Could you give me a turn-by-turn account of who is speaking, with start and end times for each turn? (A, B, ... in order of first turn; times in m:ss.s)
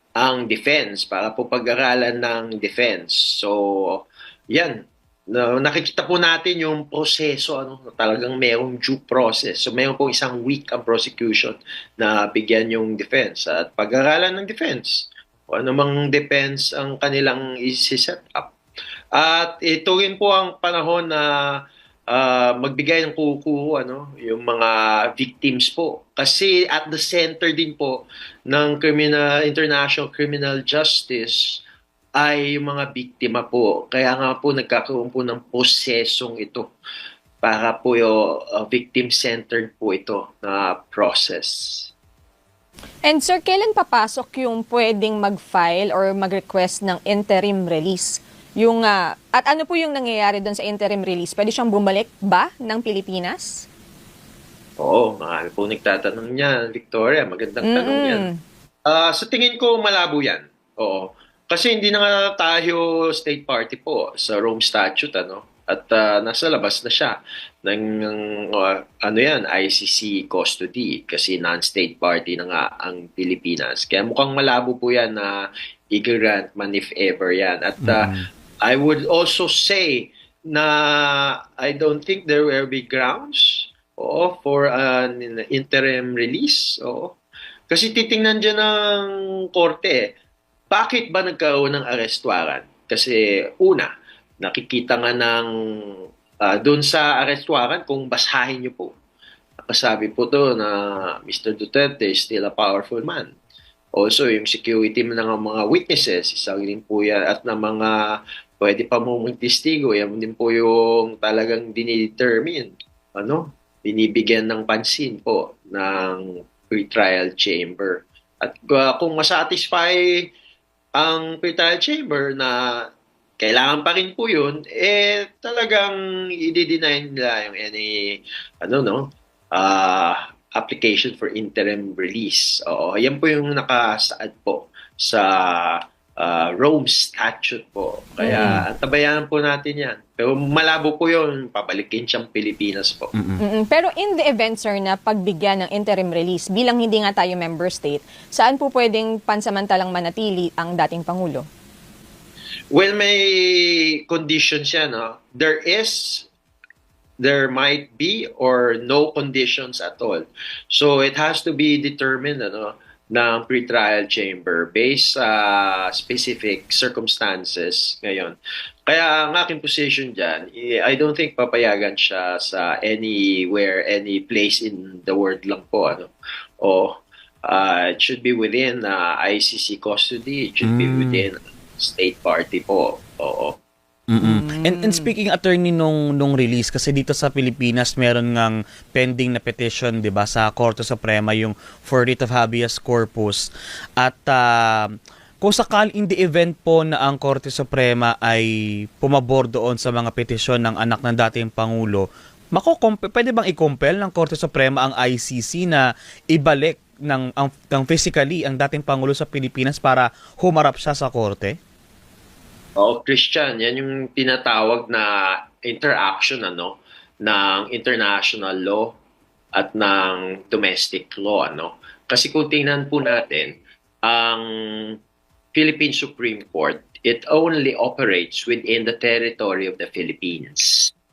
0:00.2-0:18.5 A
0:19.1-0:31.6 A
0:32.2-0:36.7 A
0:37.4-0:41.9 A
0:43.0-0:53.6 B
0:54.8-0:58.3 A
0:57.6-0:58.4 B
0:58.8-1:27.2 A
1:17.8-1:18.2 C
1:27.7-1:30.1 A
1:30.7-1:38.9 A
1:39.6-1:43.3 A
1:43.9-1:48.0 A
1:48.6-2:00.3 A
2:01.0-2:02.8 A
2:03.4-2:23.1 A
2:18.2-2:18.6 B
2:18.3-2:18.6 C
2:23.1-2:23.4 C
2:23.4-2:31.4 B
2:32.7-2:36.3 A
2:37.2-2:48.3 A
2:48.9-3:03.6 A
3:00.6-3:01.2 C
3:04.1-3:13.5 C
3:04.2-3:05.1 B
3:14.0-3:18.5 C
3:19.0-3:31.6 C
3:32.8-3:38.9 A
3:39.5-3:45.0 A
3:45.5-3:50.9 A